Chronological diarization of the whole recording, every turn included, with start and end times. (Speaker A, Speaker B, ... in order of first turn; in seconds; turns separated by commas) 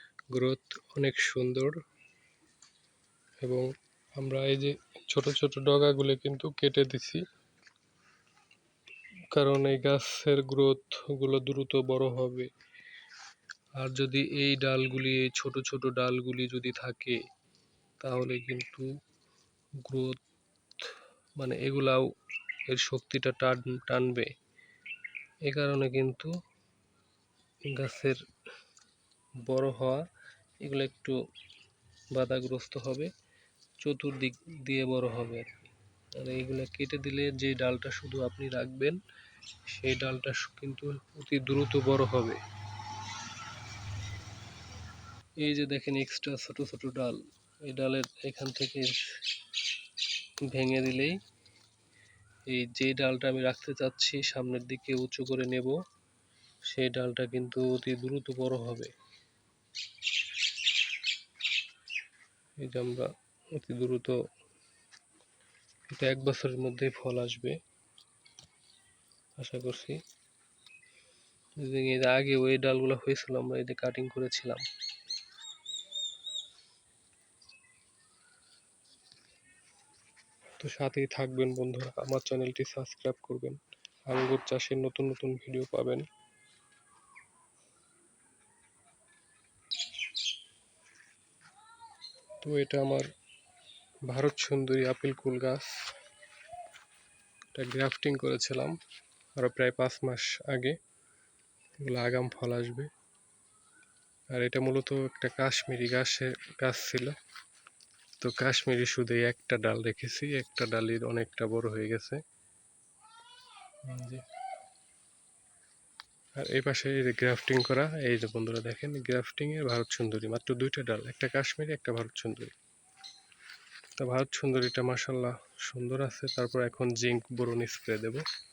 Speaker A: 0.3-1.7, Speaker A: 3.4-7.2, Speaker A: 9.3-12.5, Speaker A: 13.8-17.2, Speaker A: 18.0-18.9, Speaker A: 19.8-20.2, Speaker A: 21.4-22.0, Speaker A: 22.7-24.3, Speaker A: 25.5-26.3, Speaker A: 27.6-28.2, Speaker A: 29.5-30.0, Speaker A: 30.6-31.1, Speaker A: 32.1-33.1, Speaker A: 33.8-39.0, Speaker A: 39.7-42.4, Speaker A: 45.4-49.0, Speaker A: 50.5-51.2, Speaker A: 52.5-55.8, Speaker A: 56.7-58.9, Speaker A: 62.6-64.2, Speaker A: 65.9-67.6, Speaker A: 69.4-70.0, Speaker A: 71.6-74.6, Speaker A: 80.6-83.6, Speaker A: 84.1-86.0, Speaker A: 92.4-93.1, Speaker A: 94.1-95.7, Speaker A: 97.5-98.8, Speaker A: 99.4-100.8, Speaker A: 101.8-102.9, Speaker A: 104.3-107.2, Speaker A: 108.2-112.2, Speaker A: 113.9-114.2, Speaker A: 116.4-122.5, Speaker A: 124.0-128.2